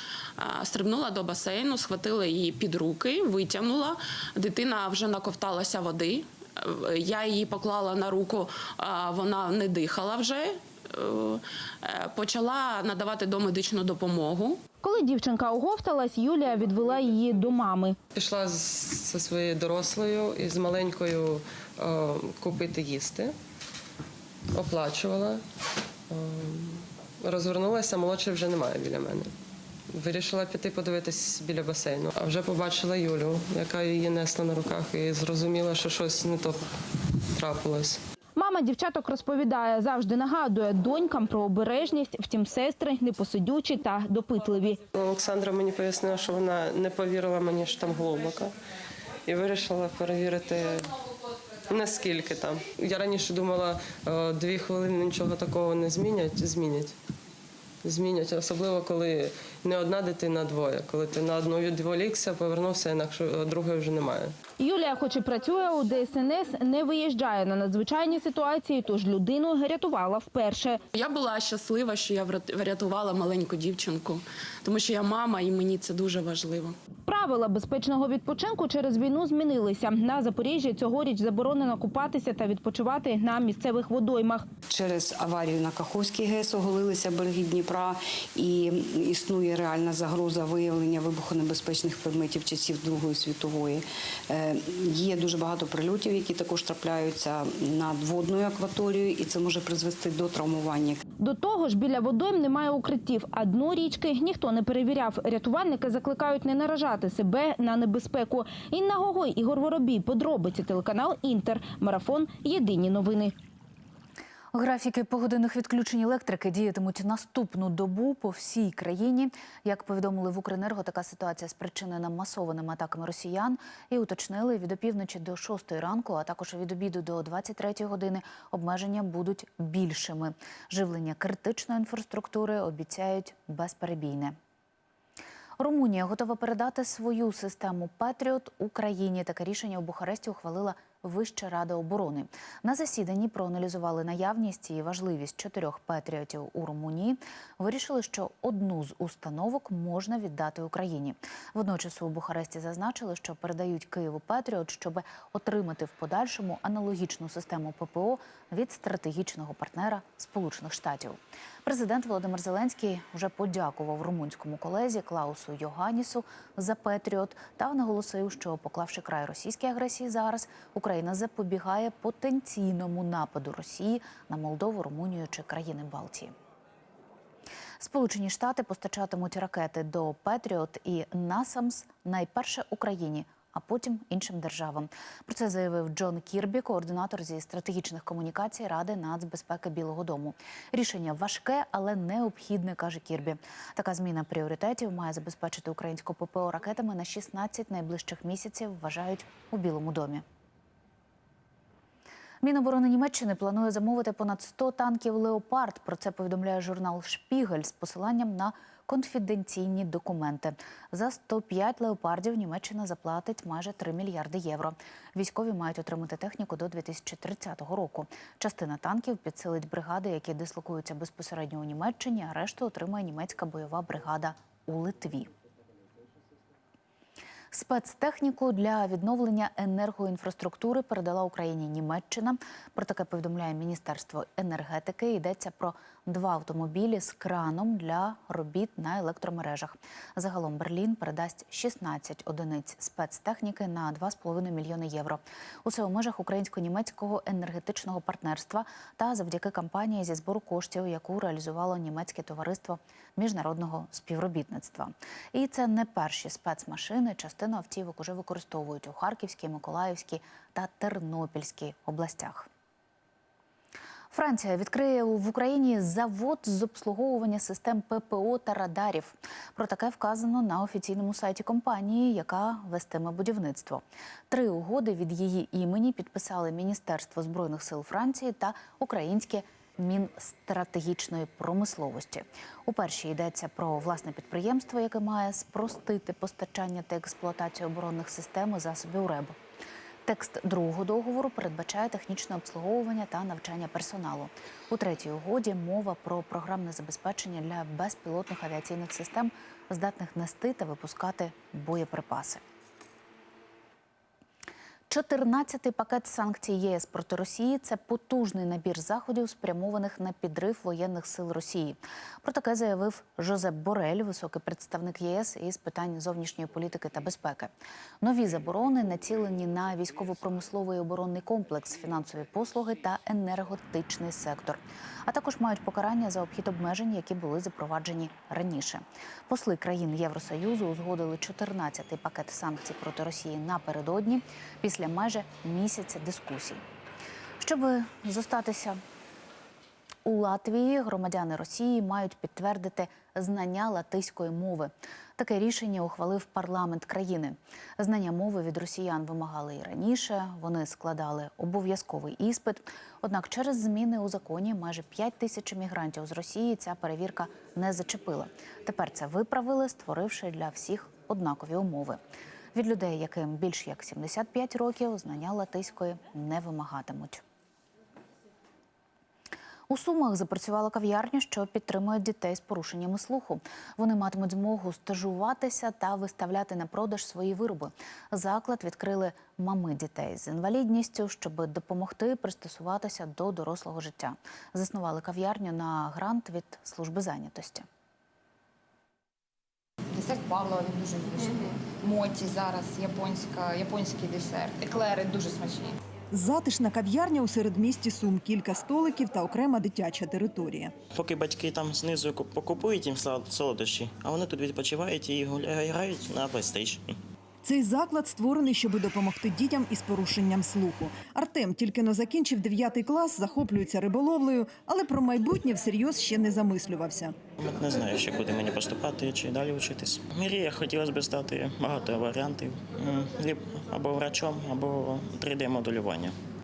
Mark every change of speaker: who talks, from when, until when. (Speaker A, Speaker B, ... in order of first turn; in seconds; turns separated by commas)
Speaker A: 0.4-14.6, Speaker B: 14.8-18.0, Speaker C: 18.1-23.3, Speaker C: 24.5-25.4, Speaker C: 26.1-29.3, Speaker C: 29.9-36.6, Speaker C: 37.4-38.0, Speaker B: 38.4-44.8, Speaker C: 44.9-48.5, Speaker C: 49.3-51.0, Speaker C: 51.7-56.9, Speaker C: 57.8-64.3, Speaker B: 64.6-70.8, Speaker A: 70.9-76.8, Speaker B: 77.1-84.5, Speaker D: 84.7-101.0, Speaker B: 101.2-113.3, Speaker E: 114.5-134.3, Speaker E: 135.6-176.3, Speaker E: 177.8-200.2, Speaker E: 202.4-225.3, Speaker E: 227.5-262.5, Speaker E: 264.1-289.4, Speaker E: 290.1-302.4, Speaker E: 304.9-336.6, Speaker E: 337.4-338.8, Speaker E: 340.1-362.0, Speaker E: 362.6-367.2, Speaker E: 369.7-387.7, Speaker F: 389.9-395.8, Speaker G: 396.1-400.7, Speaker H: 400.9-406.9, Speaker G: 407.4-417.1, Speaker H: 417.4-426.2